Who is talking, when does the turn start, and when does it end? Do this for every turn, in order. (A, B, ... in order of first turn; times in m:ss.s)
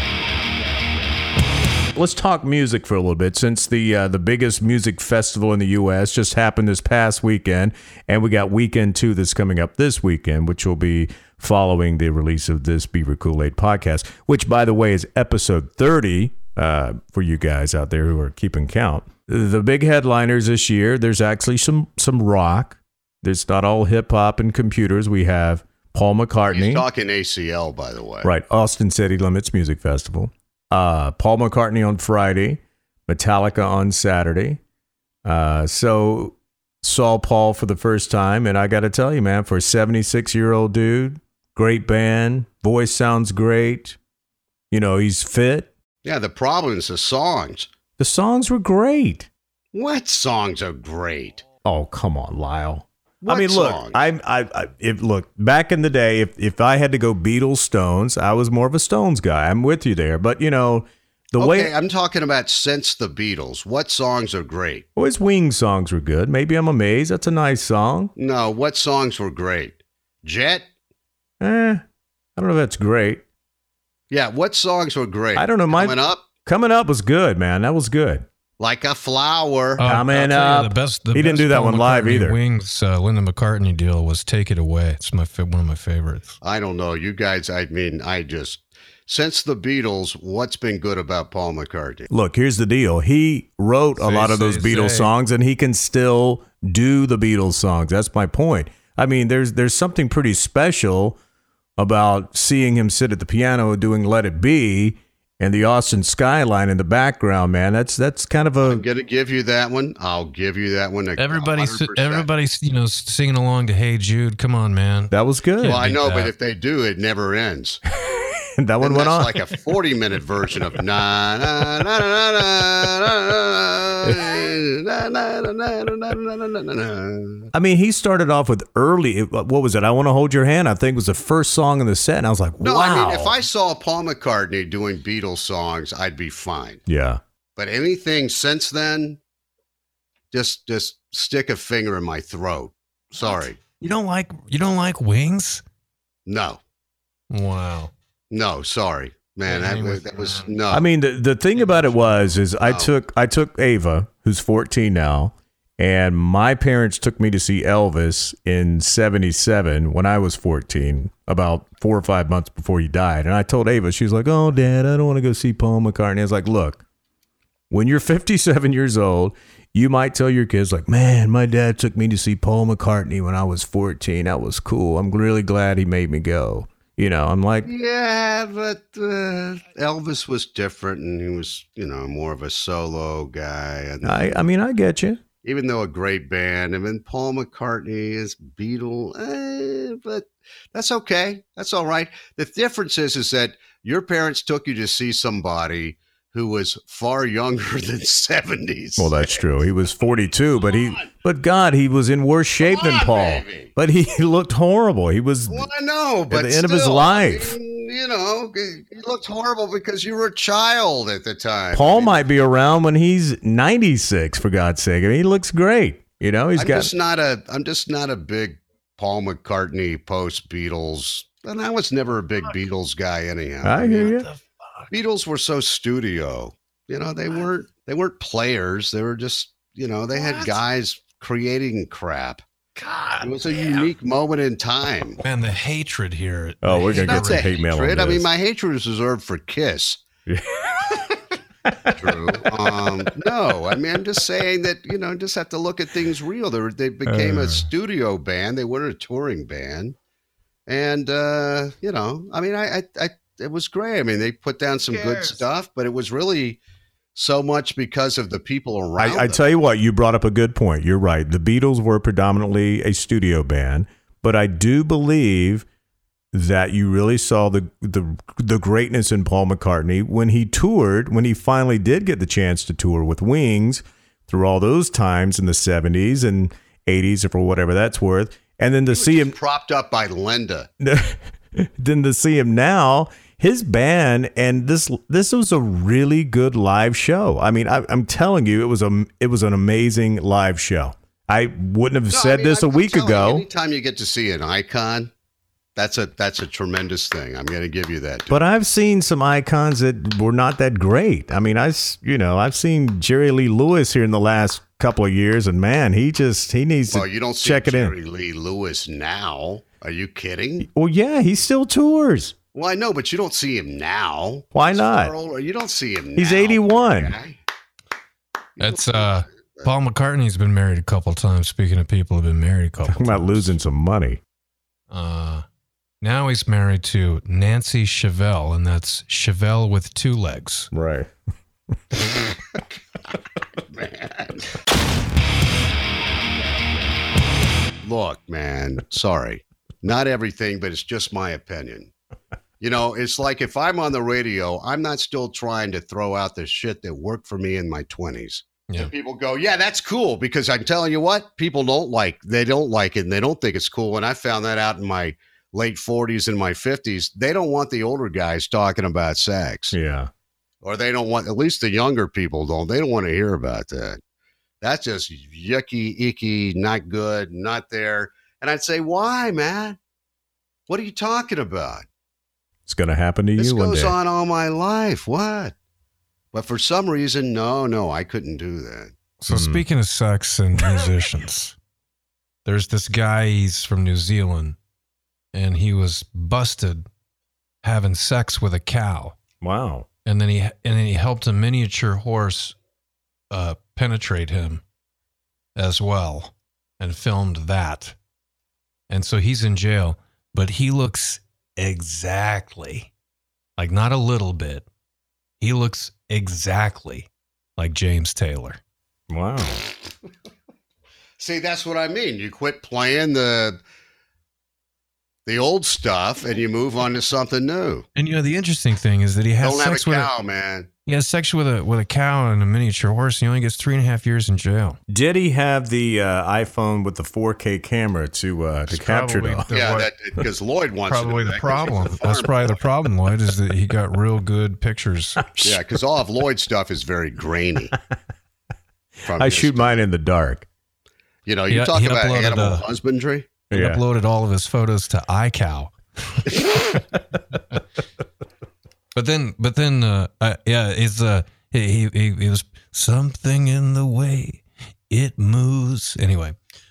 0:01.9-0:26.9 A
0:26.5-0:28.3 B
0:28.2-0:34.6 A
0:35.2-0:44.0 A
0:44.7-0:45.7 A
0:46.0-0:47.7 B
0:48.0-0:49.3 A
0:49.7-0:51.5 B
0:51.6-1:01.7 A
0:53.2-0:54.0 B
1:01.4-1:04.8 B
1:05.0-1:08.1 A
1:08.2-1:10.7 B
1:11.4-1:11.8 A
1:12.4-1:13.2 A
1:14.1-1:16.2 B
1:15.4-1:18.3 A
1:18.6-1:19.8 B
1:19.8-1:26.4 C
1:19.8-1:22.4 A
1:26.4-1:32.1 B
1:32.1-1:41.2 A
1:34.0-1:35.1 C
1:41.8-1:48.8 A
1:48.6-1:52.3 B
1:51.2-1:56.3 C
1:55.1-1:55.8 A
1:55.6-1:57.8 B
1:58.0-1:59.4 A
1:58.8-2:07.5 B
2:07.5-2:13.4 A
2:12.6-2:16.8 B
2:16.9-2:17.2 A
2:17.6-2:19.2 B
2:20.3-2:23.6 B
2:23.2-2:25.6 C
2:26.3-2:26.6 B
2:27.3-2:27.9 C
2:28.3-2:30.9 B
2:29.5-2:30.5 C
2:30.7-2:46.8 A
2:31.6-2:32.4 C
2:32.6-2:32.9 B
2:47.7-2:57.7 A
2:57.6-3:04.4 B
3:04.0-3:05.2 A
3:05.4-3:19.5 B
3:19.0-3:25.7 A
3:20.7-3:21.0 B
3:22.6-3:23.7 B
3:25.5-3:32.2 B
3:26.3-3:27.6 A
3:31.7-3:36.9 A
3:36.6-3:44.1 B
3:43.6-3:44.3 A
3:44.0-3:44.9 C
3:44.9-3:52.4 B
3:50.2-3:50.6 C
3:52.8-3:53.8 C
3:53.2-3:55.2 B
3:55.2-3:57.4 C
3:56.6-3:58.3 A
3:57.0-4:00.0 B
4:00.3-4:01.0 A
4:01.7-4:03.0 A
4:02.0-4:10.0 B
4:07.1-4:07.6 A
4:10.7-4:16.6 B
4:17.2-4:19.4 B
4:19.0-4:25.6 A
4:26.3-4:39.4 A
4:38.9-4:40.7 B
4:40.8-4:53.5 A
4:52.1-4:55.1 B
4:55.8-4:58.4 B
4:58.3-5:08.0 A
5:06.9-5:10.7 B
5:10.6-5:12.4 A
5:12.5-5:17.4 B
5:14.5-5:15.1 A
5:16.2-5:17.1 A
5:18.6-5:19.7 B
5:18.6-5:23.6 C
5:22.8-5:24.2 A
5:24.9-5:25.4 C
5:26.0-5:30.7 C
5:30.7-5:31.1 A
5:33.7-5:34.5 B
5:37.8-5:41.9 B
5:42.6-5:59.8 B
5:59.7-6:00.1 A
6:00.6-6:04.0 B
6:04.6-6:09.8 B
6:10.7-6:11.9 B
6:12.7-6:14.0 A
6:13.4-6:15.6 B
6:16.3-6:18.9 B
6:19.2-6:21.6 C
6:19.3-6:19.6 A
6:22.4-6:24.6 C
6:25.3-6:26.8 C
6:27.6-6:29.2 C
6:29.4-6:29.9 A
6:30.1-6:32.6 C
6:33.3-6:34.6 C
6:35.6-6:38.0 C
6:38.9-6:42.9 C
6:43.6-6:44.6 C
6:45.4-6:48.6 C
6:49.1-6:49.6 A
6:51.2-6:53.6 B
6:55.3-6:57.8 B
6:58.0-7:00.1 C
6:59.4-7:00.7 B
7:00.9-7:04.8 C
7:04.9-7:09.5 A
7:08.7-7:10.0 C
7:09.5-7:12.6 B
7:10.9-7:15.3 C
7:15.3-7:15.6 A
7:15.4-7:17.7 B
7:19.0-7:20.5 A
7:19.0-7:19.8 B
7:21.3-7:23.3 B
7:21.5-7:22.6 C
7:23.5-7:23.8 A
7:23.5-7:26.3 C
7:29.0-7:36.4 C